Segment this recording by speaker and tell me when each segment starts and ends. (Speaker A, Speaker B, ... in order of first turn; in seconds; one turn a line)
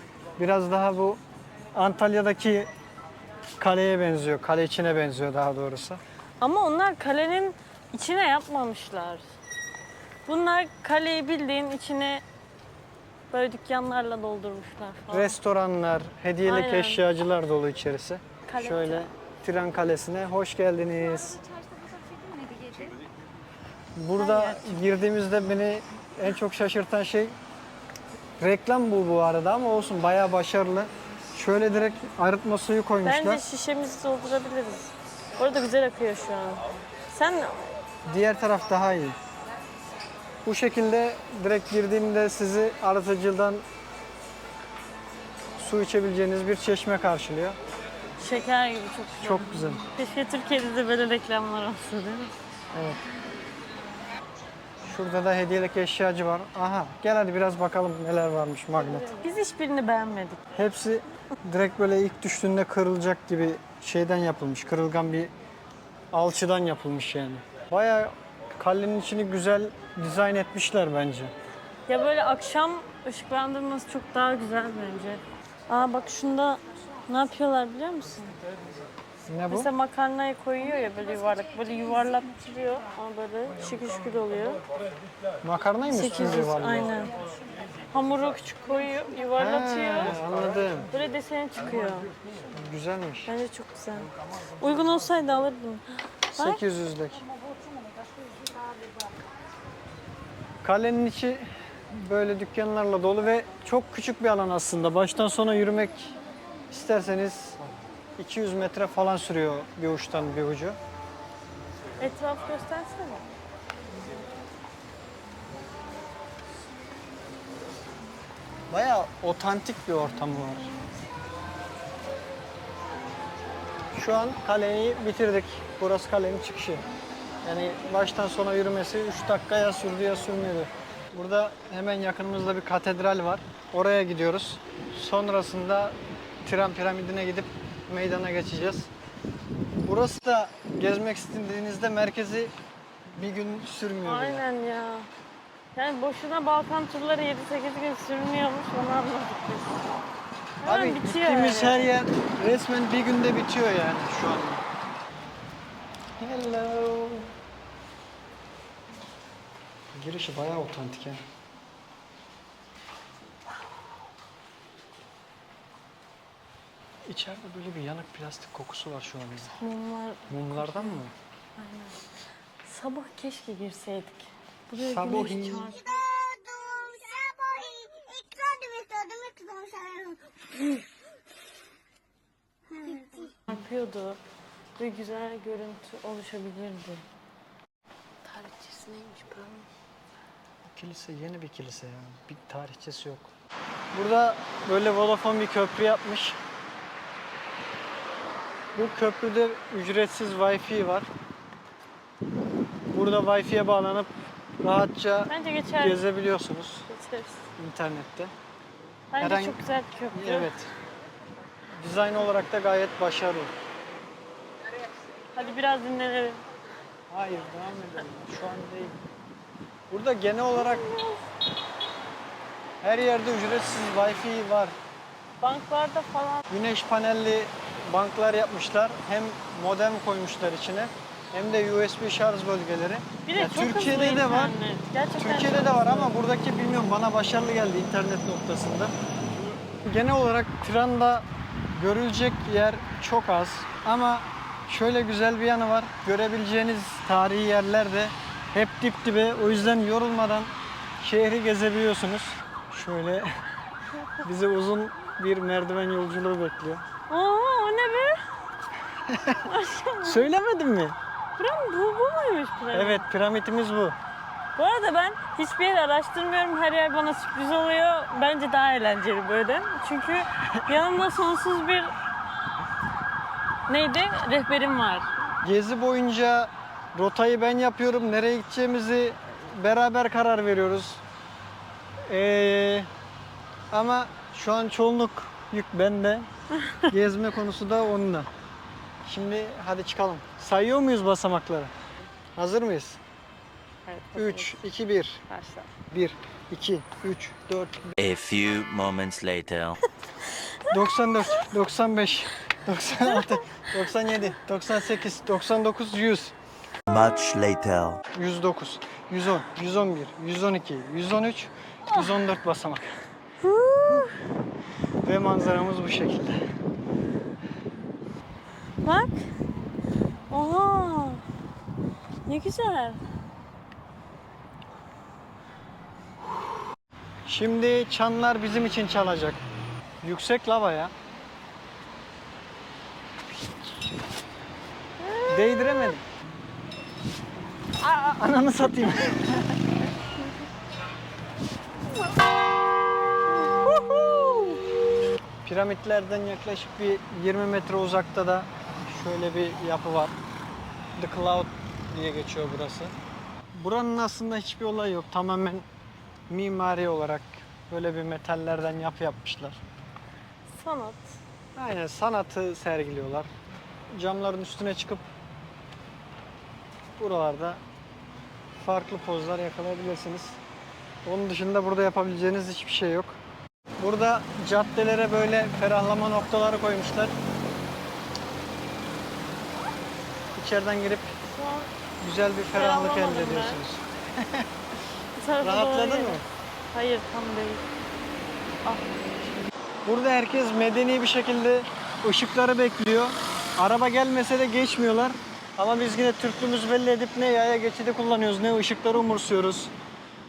Speaker A: 0.4-1.2
Speaker A: 1.7-2.7
Speaker A: 3.6-6.0
Speaker B: 6.4-9.2
Speaker B: 10.2-12.2
Speaker B: 13.3-15.3
Speaker A: 15.1-21.4
Speaker B: 16.4-17.0
Speaker B: 18.5-19.0
Speaker A: 24.0-27.3
Speaker B: 24.2-24.8
Speaker A: 28.4-33.4
Speaker B: 33.0-37.7
Speaker A: 38.0-39.1
Speaker A: 40.4-43.6
Speaker A: 45.6-47.6
Speaker B: 48.2-52.3
Speaker A: 49.2-49.8
Speaker A: 52.7-53.0
Speaker A: 54.8-59.1
Speaker B: 58.8-60.4
Speaker A: 60.5-65.3
Speaker A: 66.1-71.3
Speaker B: 71.9-78.3
Speaker A: 79.3-79.7
Speaker B: 79.5-84.6
Speaker A: 85.4-86.9
Speaker B: 85.9-87.1
Speaker B: 87.9-90.2
Speaker A: 89.4-90.9
Speaker B: 90.9-92.1
Speaker A: 92.5-93.3
Speaker B: 93.3-96.6
Speaker A: 96.3-97.2
Speaker A: 100.6-106.2
Speaker A: 106.7-107.6
Speaker A: 108.2-110.8
Speaker B: 112.0-113.2
Speaker A: 118.7-120.7
Speaker A: 123.9-126.8
Speaker A: 127.4-138.9
Speaker A: 139.8-142.5
Speaker A: 143.1-144.4
Speaker B: 144.0-145.1
Speaker B: 145.7-149.7
Speaker B: 150.6-151.9
Speaker A: 150.6-154.6
Speaker A: 156.2-157.3
Speaker A: 159.9-161.2
Speaker A: 167.1-169.6
Speaker B: 169.6-171.0
Speaker A: 170.3-171.1
Speaker B: 171.6-172.0
Speaker B: 172.6-176.0
Speaker A: 174.7-175.7
Speaker C: 175.9-180.1
Speaker B: 183.2-184.2
Speaker B: 184.8-187.0
Speaker B: 188.2-189.7
Speaker A: 190.7-193.3
Speaker A: 193.9-196.4
Speaker A: 198.7-201.1
Speaker A: 202.9-204.1
Speaker A: 204.6-206.8
Speaker B: 205.3-206.1
Speaker B: 206.9-207.5
Speaker A: 207.6-208.3
Speaker B: 209.1-210.5
Speaker A: 209.2-210.7
Speaker A: 211.8-213.5
Speaker B: 215.3-216.4
Speaker A: 217.1-218.9
Speaker A: 219.9-220.8
Speaker B: 220.6-221.3
Speaker A: 222.8-224.8
Speaker B: 225.4-226.4
Speaker A: 226.5-234.5
Speaker B: 233.2-236.1
Speaker A: 235.2-238.9
Speaker A: 239.8-253.3
Speaker A: 254.2-256.8
Speaker B: 257.1-258.2
Speaker A: 259.1-259.4
Speaker B: 259.4-260.3
Speaker A: 260.0-261.0
Speaker B: 261.4-263.0
Speaker A: 262.7-263.9
Speaker B: 264.6-271.9
Speaker B: 273.7-275.1
Speaker A: 275.4-281.0
Speaker A: 282.1-282.9
Speaker A: 283.7-286.3
Speaker A: 286.9-288.3
Speaker A: 289.0-291.7
Speaker A: 292.4-293.0
Speaker B: 293.9-294.6
Speaker A: 294.1-295.2
Speaker B: 295.3-295.7
Speaker A: 295.9-297.9
Speaker D: 298.0-299.8
Speaker A: 300.7-306.3
Speaker D: 306.9-308.0
Speaker A: 308.1-312.9
Speaker B: 311.9-312.2
Speaker B: 313.4-314.2
Speaker A: 315.0-316.4
Speaker B: 318.8-319.2
Speaker B: 320.3-321.2
Speaker B: 322.3-323.0
Speaker A: 327.2-329.4
Speaker A: 330.0-330.9
Speaker B: 335.0-335.9
Speaker A: 335.3-336.0
Speaker A: 337.8-339.6
Speaker A: 343.6-344.6
Speaker A: 345.4-350.1
Speaker A: 351.0-352.9
Speaker A: 353.5-355.6
Speaker A: 356.3-359.6
Speaker B: 360.5-361.1
Speaker A: 361.5-363.3
Speaker A: 363.9-365.0
Speaker A: 367.0-367.6
Speaker A: 368.6-370.4
Speaker A: 371.0-373.2
Speaker A: 373.8-377.1
Speaker A: 380.3-381.1
Speaker B: 381.2-381.7
Speaker A: 382.0-384.5
Speaker B: 382.5-383.6
Speaker B: 385.1-386.2
Speaker A: 385.4-386.2
Speaker B: 386.7-387.6
Speaker B: 388.6-389.2
Speaker A: 389.8-399.7